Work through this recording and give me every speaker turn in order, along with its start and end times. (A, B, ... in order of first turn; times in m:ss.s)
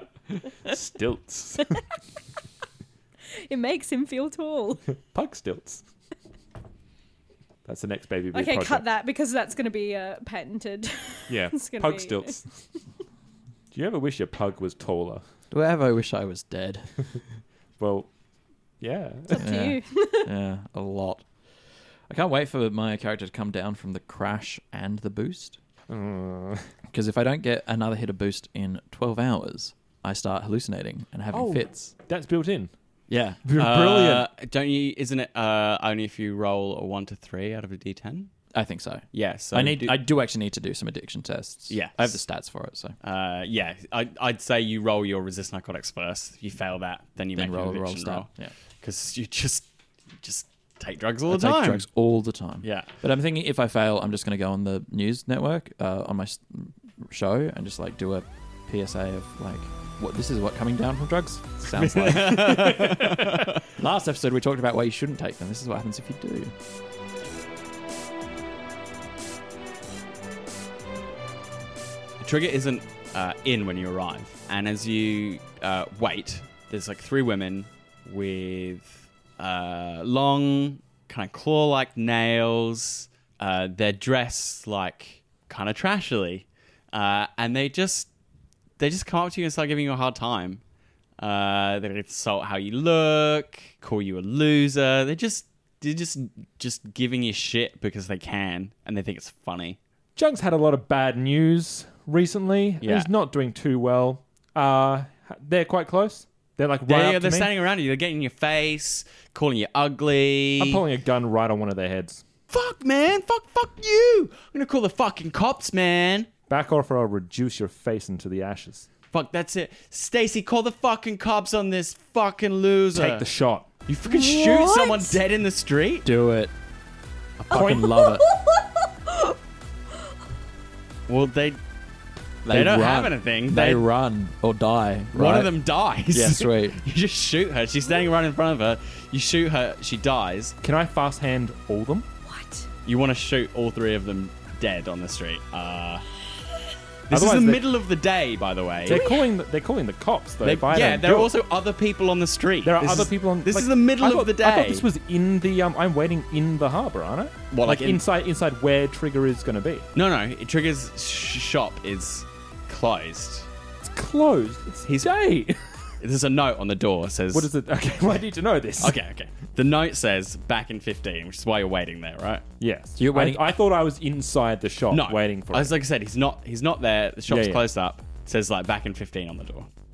0:00.7-0:01.8 A
0:03.5-0:04.8 B
0:05.0-0:05.8 A
0:07.6-0:08.8 A
0:08.3-0:12.4 B
0:11.3-0:12.5 A
0:13.7-0:15.2 A
0:15.5-0:17.2 C
0:17.8-0:18.1 A
0:18.8-0:19.4 A
0:19.3-0:20.3 B
0:19.4-0:25.6 C
0:25.9-0:26.7 A
0:26.9-0:31.9 C
0:31.3-0:32.7 A
0:33.1-0:38.3 D
0:33.4-0:34.3 A
0:38.5-0:42.9 C
0:39.1-0:40.0 D
0:41.7-0:42.2 D
0:43.0-0:48.3 D
0:47.3-0:48.5 C
0:48.8-0:49.6 D
0:50.2-0:51.9 D
0:51.3-1:03.0 C
0:52.6-0:52.9 D
1:01.7-1:03.5 D
1:03.8-1:06.5 C
1:12.2-1:28.1 D
1:28.8-1:30.6 D
1:31.2-1:39.8 D
1:40.2-1:47.5 A
1:42.8-1:43.1 D
1:46.9-1:50.8 D
1:50.6-1:52.2 A
1:52.5-1:56.3 D
1:56.5-1:58.9 A
1:59.1-2:03.2 D
2:02.9-2:03.7 A
2:03.9-2:06.1 D
2:04.1-2:05.2 B
2:06.0-2:06.5 C
2:07.4-2:08.2 C
2:07.5-2:08.1 A
2:07.6-2:09.3 B
2:11.1-2:11.6 D
2:12.4-2:15.5 C
2:12.5-2:13.9 D
2:15.1-2:20.6 D
2:16.1-2:16.8 C
2:20.6-2:22.1 A
2:22.2-2:22.7 B
2:22.8-2:26.0 D
2:27.1-2:29.1 D
2:27.1-2:27.6 A
2:28.8-2:31.3 A
2:28.9-2:29.2 B
2:30.4-2:34.8 D
2:32.6-2:39.9 A
2:37.5-2:38.0 D
2:39.9-2:43.5 D
2:43.8-2:45.9 A
2:44.8-2:45.1 D
2:46.0-2:47.5 D
2:47.3-2:49.0 A
2:48.8-2:52.4 D
2:52.6-2:55.7 A
2:53.0-2:53.5 C
2:54.9-2:59.7 D
2:57.3-2:57.6 A